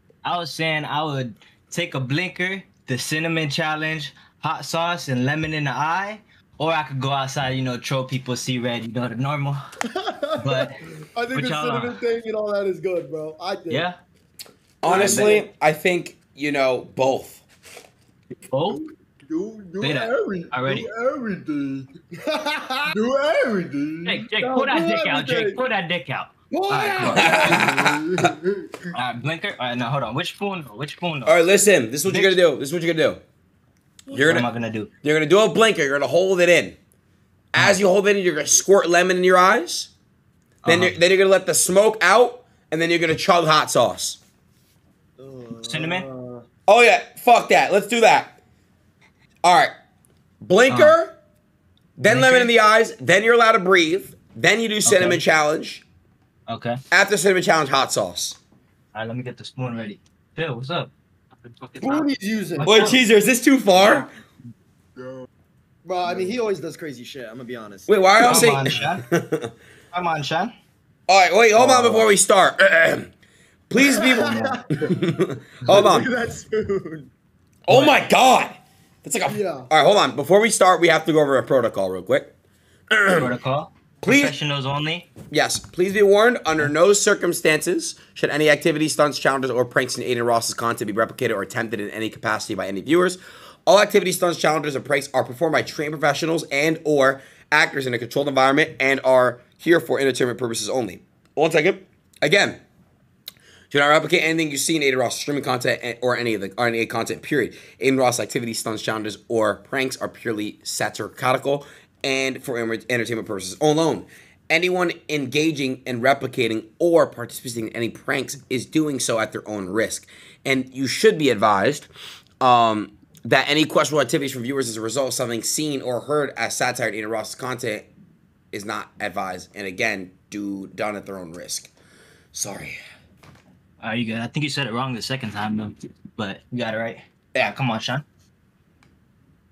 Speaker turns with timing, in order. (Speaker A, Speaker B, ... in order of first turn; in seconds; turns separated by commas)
Speaker A: 0.2-9.6, Speaker B: 9.9-13.8, Speaker A: 10.4-10.8, Speaker A: 11.3-12.0, Speaker A: 13.7-14.0, Speaker C: 14.8-17.4, Speaker A: 14.8-15.4, Speaker B: 14.9-15.4, Speaker A: 18.5-18.8, Speaker D: 18.7-21.9, Speaker A: 19.8-20.9, Speaker B: 22.1-22.9, Speaker D: 22.9-24.2, Speaker A: 24.1-27.5, Speaker B: 24.4-25.6, Speaker B: 26.5-27.6, Speaker C: 27.1-28.3, Speaker D: 27.3-28.9, Speaker A: 28.9-32.4, Speaker C: 31.3-33.2, Speaker C: 34.1-34.5, Speaker A: 34.1-34.9, Speaker C: 35.0-36.8, Speaker C: 37.5-39.9, Speaker A: 40.6-41.0, Speaker C: 40.7-44.2, Speaker B: 45.2-46.5, Speaker A: 45.6-46.1, Speaker C: 46.7-48.4, Speaker C: 49.4-49.8, Speaker C: 50.4-51.1, Speaker A: 50.7-51.0, Speaker C: 52.0-55.8, Speaker A: 52.0-52.5, Speaker A: 54.9-55.2, Speaker A: 56.5-56.8, Speaker C: 56.9-58.4, Speaker A: 58.9-63.0, Speaker B: 61.8-63.0, Speaker C: 62.6-64.1, Speaker A: 63.8-64.0, Speaker D: 65.0-65.3, Speaker B: 65.8-68.4, Speaker D: 66.0-66.4, Speaker C: 67.9-69.5, Speaker A: 68.2-69.0, Speaker A: 69.9-70.5, Speaker C: 71.1-73.1, Speaker D: 71.6-71.9, Speaker C: 73.7-76.1, Speaker B: 73.8-74.6, Speaker B: 75.7-77.1, Speaker C: 77.7-82.3, Speaker A: 77.7-78.0, Speaker B: 79.3-79.7, Speaker C: 82.9-83.3, Speaker A: 83.1-85.1, Speaker C: 84.0-84.3, Speaker C: 85.3-102.6, Speaker C: 103.7-121.9, Speaker C: 122.4-127.9, Speaker C: 128.5-131.7, Speaker C: 132.3-132.8, Speaker A: 133.8-138.1